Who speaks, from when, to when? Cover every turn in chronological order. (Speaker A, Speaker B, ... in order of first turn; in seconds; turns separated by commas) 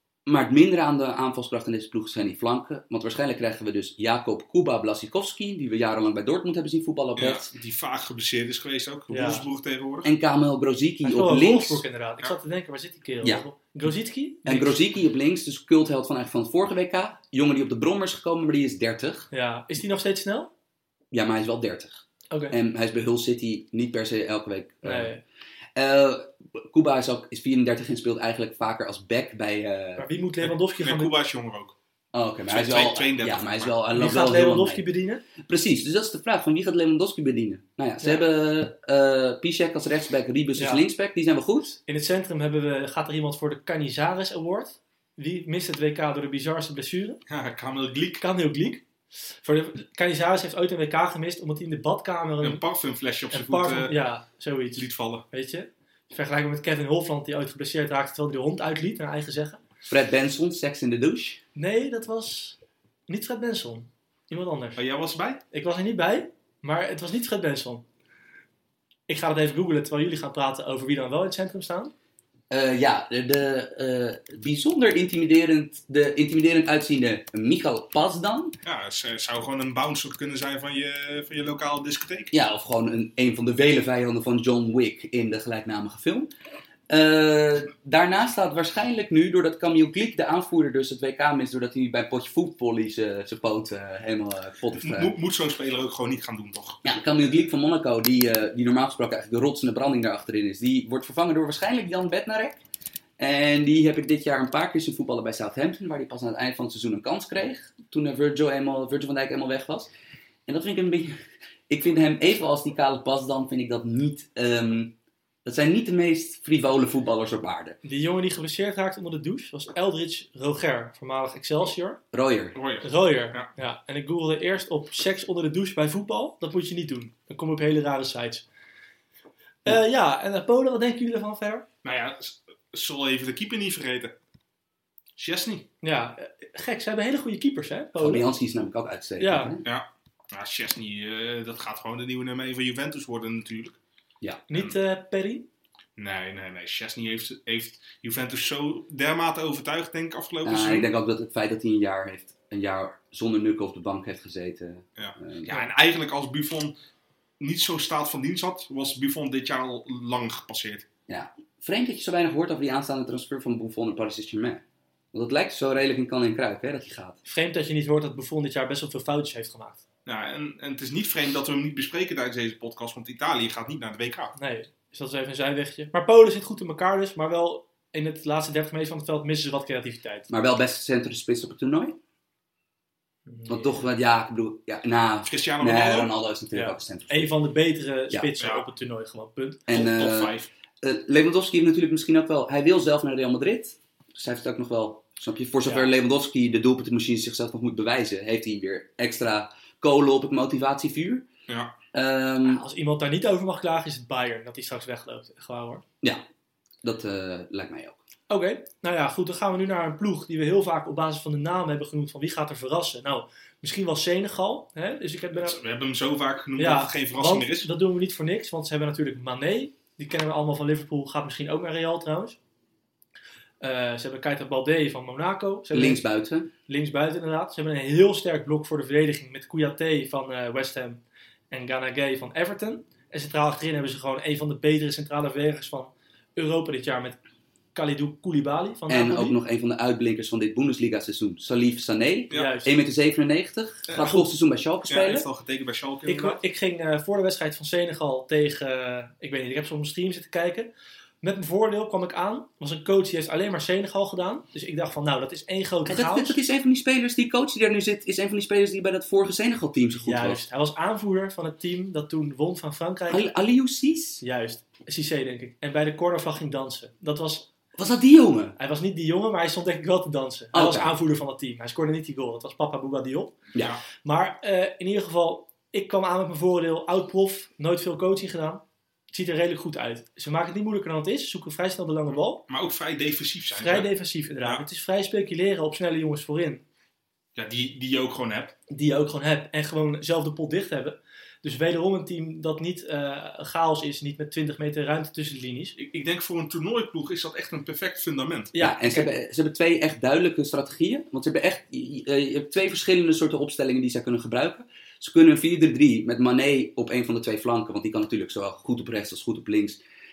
Speaker A: 0.2-7.5, Speaker B: 7.2-10.1, Speaker C: 9.1-9.4, Speaker A: 10.0-11.8, Speaker C: 11.0-14.8, Speaker A: 14.4-19.3, Speaker C: 19.3-20.5, Speaker A: 21.1-25.1, Speaker C: 24.8-25.2, Speaker A: 25.8-30.1, Speaker C: 30.0-31.1, Speaker B: 30.4-31.7, Speaker A: 32.1-34.9, Speaker B: 32.5-33.7, Speaker C: 33.9-35.2, Speaker A: 35.4-41.8, Speaker C: 40.6-40.8, Speaker C: 41.8-47.2, Speaker B: 47.3-48.2, Speaker C: 48.2-48.8, Speaker C: 49.4-52.6, Speaker B: 52.4-53.9, Speaker C: 53.3-59.6, Speaker B: 54.8-55.2, Speaker A: 59.9-61.4, Speaker C: 61.5-64.8, Speaker B: 64.8-65.4, Speaker C: 65.5-67.8, Speaker C: 69.1-71.9, Speaker A: 72.5-78.5, Speaker B: 78.6-82.3, Speaker A: 82.3-86.3, Speaker A: 86.9-95.1, Speaker B: 94.8-96.8, Speaker A: 96.8-102.6, Speaker A: 103.2-109.9, Speaker A: 110.5-111.2, Speaker A: 111.7-117.8, Speaker C: 117.8-122.0, Speaker A: 122.1-122.6, Speaker B: 122.5-123.5, Speaker C: 122.8-128.4, Speaker C: 129.6-131.7, Speaker B: 131.8-134.1, Speaker B: 135.2-135.7, Speaker C: 135.8-138.3, Speaker A: 138.0-139.6, Speaker C: 139.2-139.5, Speaker B: 139.6-143.8, Speaker C: 144.5-145.5, Speaker B: 146.0-150.9, Speaker A: 150.4-155.5, Speaker B: 155.0-156.7, Speaker B: 157.4-160.8, Speaker A: 161.1-167.2, Speaker C: 167.2-169.8, Speaker B: 170.1-174.3, Speaker C: 174.4-180.3, Speaker A: 180.3-182.0, Speaker C: 183.3-183.8, Speaker A: 183.5-187.3, Speaker B: 185.2-186.1, Speaker C: 186.5-189.6, Speaker B: 188.4-188.7, Speaker A: 189.7-201.2, Speaker B: 189.7-190.5, Speaker C: 195.6-195.9, Speaker B: 201.5-201.7, Speaker A: 201.9-202.6, Speaker C: 202.4-205.8, Speaker A: 206.8-208.0, Speaker C: 208.3-215.6, Speaker B: 215.4-217.7, Speaker C: 216.6-222.4, Speaker C: 223.6-226.0, Speaker A: 225.7-226.5, Speaker C: 226.7-237.2, Speaker C: 237.7-239.4, Speaker A: 238.9-245.3, Speaker C: 242.3-242.7, Speaker B: 243.9-244.3, Speaker B: 244.9-246.4, Speaker C: 246.1-250.7, Speaker C: 251.2-256.4, Speaker A: 255.8-260.4, Speaker C: 260.0-263.2, Speaker A: 263.1-264.2, Speaker C: 264.2-267.5, Speaker A: 267.8-268.6, Speaker C: 268.6-273.4, Speaker A: 270.5-271.0, Speaker C: 274.0-282.4, Speaker B: 282.1-283.9, Speaker C: 283.5-286.6, Speaker B: 287.3-288.5, Speaker C: 288.7-295.8, Speaker B: 295.8-298.5, Speaker C: 298.5-299.1, Speaker A: 298.6-309.8